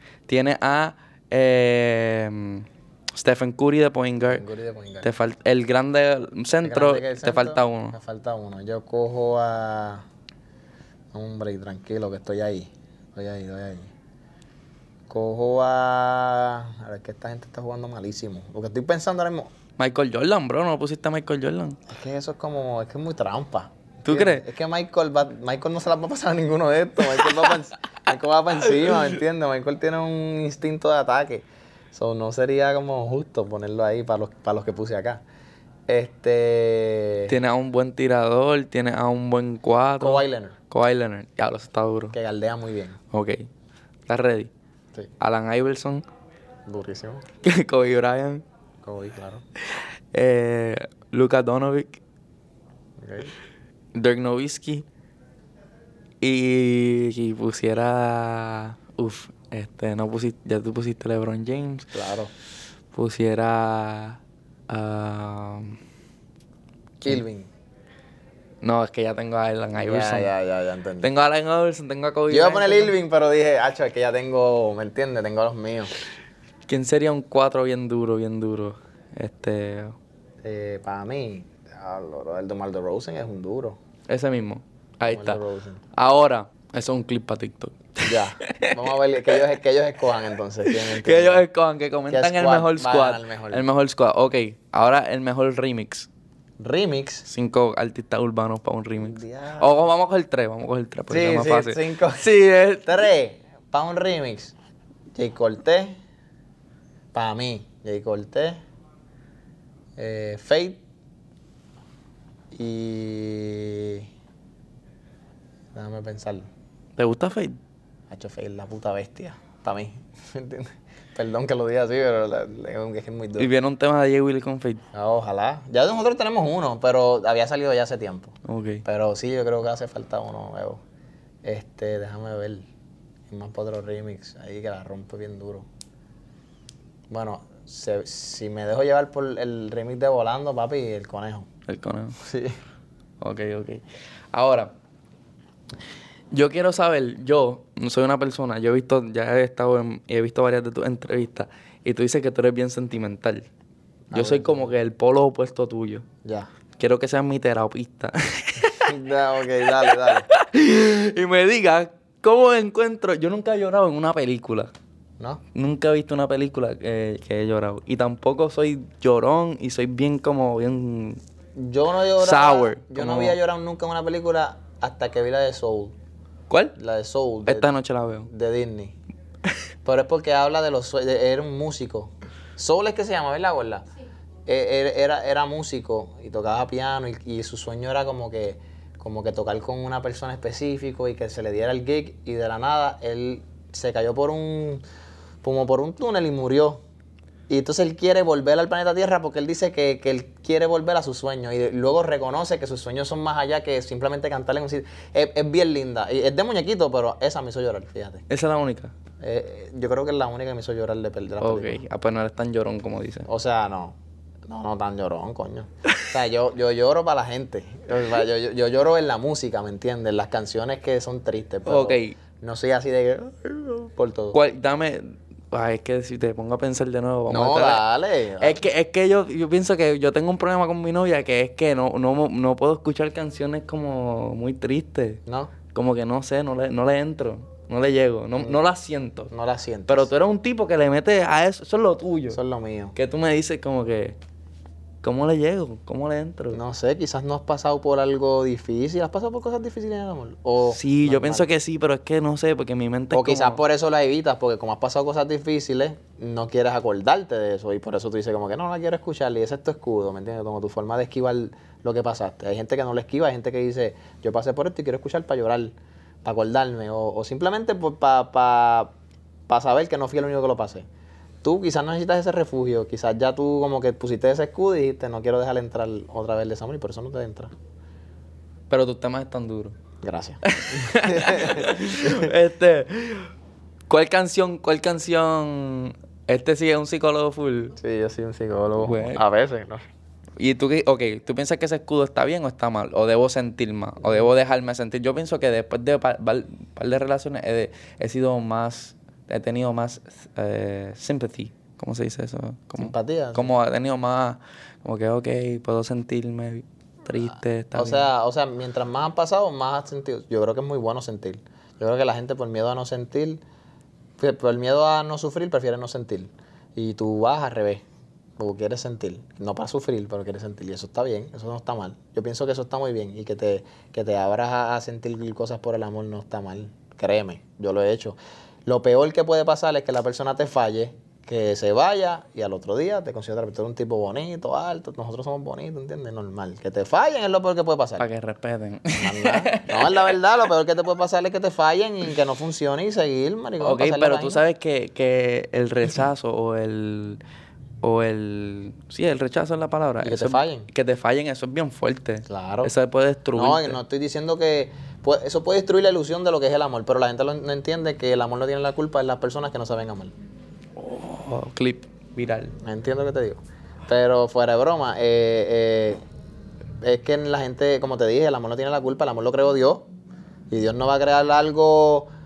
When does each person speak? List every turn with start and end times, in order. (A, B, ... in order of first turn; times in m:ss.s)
0:00.3-0:04.4 A
0:04.3-0:05.1 B
0:05.0-0:08.0 A
0:06.6-0:10.0 B
0:11.1-0:13.9 B
0:15.1-0:19.5 B
0:19.8-0:21.8 A
0:21.9-0:35.2 B
0:24.0-0:24.4 A
0:35.9-0:37.3 B
0:37.3-0:42.1 A
0:40.0-0:40.6 B
0:42.1-0:43.0 B
0:43.1-0:43.4 A
0:44.1-0:44.5 A
0:45.2-0:46.0 A
0:46.6-0:47.2 B
0:47.4-0:48.4 A
0:48.8-0:49.4 B
0:49.7-0:52.0 A
0:53.0-0:53.3 B
0:53.9-0:54.8 A
0:56.2-1:02.0 A
1:01.9-1:02.3 B
1:02.9-1:05.8 A
1:07.0-1:07.5 B
1:08.6-1:10.3 A
1:09.8-1:11.1 B
1:11.0-1:12.9 A
1:12.3-1:15.9 B
1:16.7-1:19.9 A
1:20.4-1:23.8 B
1:24.1-1:25.4 A
1:25.0-1:25.8 B
1:25.9-1:28.8 A
1:28.0-1:31.4 B
1:30.7-1:36.1 A
1:32.1-1:33.6 B
1:36.6-1:37.2 B
1:37.2-1:43.0 A
1:39.0-1:39.8 B
1:41.1-1:42.3 B
1:42.8-1:44.5 B
1:45.1-1:46.0 B
1:47.1-1:48.6 B
1:50.0-1:50.8 B
1:52.5-1:54.1 B
1:55.7-1:56.5 B
1:57.0-1:57.6 A
1:58.1-2:03.5 B
2:03.4-2:04.8 A
2:04.9-2:10.8 B
2:08.4-2:08.8 A
2:11.4-2:12.6 B
2:13.3-2:15.7 B
2:17.1-2:21.5 B
2:21.7-2:22.2 A
2:22.2-2:22.6 B
2:23.2-2:24.7 A
2:26.3-2:33.4 A
2:34.1-2:34.8 B
2:34.1-2:36.0 A
2:36.2-2:36.5 B
2:36.8-2:38.9 A
2:38.8-2:40.3 B
2:39.9-2:44.7 A
2:45.5-2:51.2 A
2:51.6-2:55.9 B
2:52.2-2:53.4 A
2:56.5-2:56.8 A
2:56.8-2:57.7 B
2:57.4-2:58.3 A
2:58.3-2:59.0 B
2:59.8-3:03.8 B
3:04.4-3:14.8 B
3:15.4-3:16.8 B
3:17.5-3:28.2 B
3:28.3-3:28.9 A
3:29.2-3:31.8 B
3:31.4-3:33.3 A
3:33.2-3:44.4 B
3:41.6-3:42.1 A
3:44.3-3:47.8 A
3:47.3-3:48.6 B
3:48.4-3:55.2 A
3:55.2-3:55.5 B
3:55.7-3:59.3 A
3:59.3-4:00.1 B
3:59.9-4:02.4 A
4:02.3-4:03.0 B
4:02.9-4:04.2 A
4:05.0-4:06.6 A
4:06.5-4:11.5 B
4:10.6-4:13.6 A
4:13.1-4:28.9 B
4:29.5-4:30.9 B
4:31.4-4:37.5 B
4:38.7-4:39.8 A
4:40.0-4:42.3 B
4:40.4-4:43.3 A
4:43.9-4:47.7 A
4:47.8-4:49.8 B
4:48.8-4:49.2 A
4:50.4-5:08.1 A
5:02.8-5:03.5 B
5:07.7-5:13.4 B
5:14.2-5:17.8 B
5:18.4-5:38.0 B
5:38.0-5:40.1 A
5:39.0-5:44.4 B
5:43.6-5:47.2 A
5:47.8-5:53.8 A
5:50.0-5:50.7 B
5:52.3-5:52.7 B
5:53.3-6:00.1 B
6:00.8-6:02.5 A
6:02.6-6:06.0 B
6:06.8-6:09.9 B
6:10.5-6:12.1 B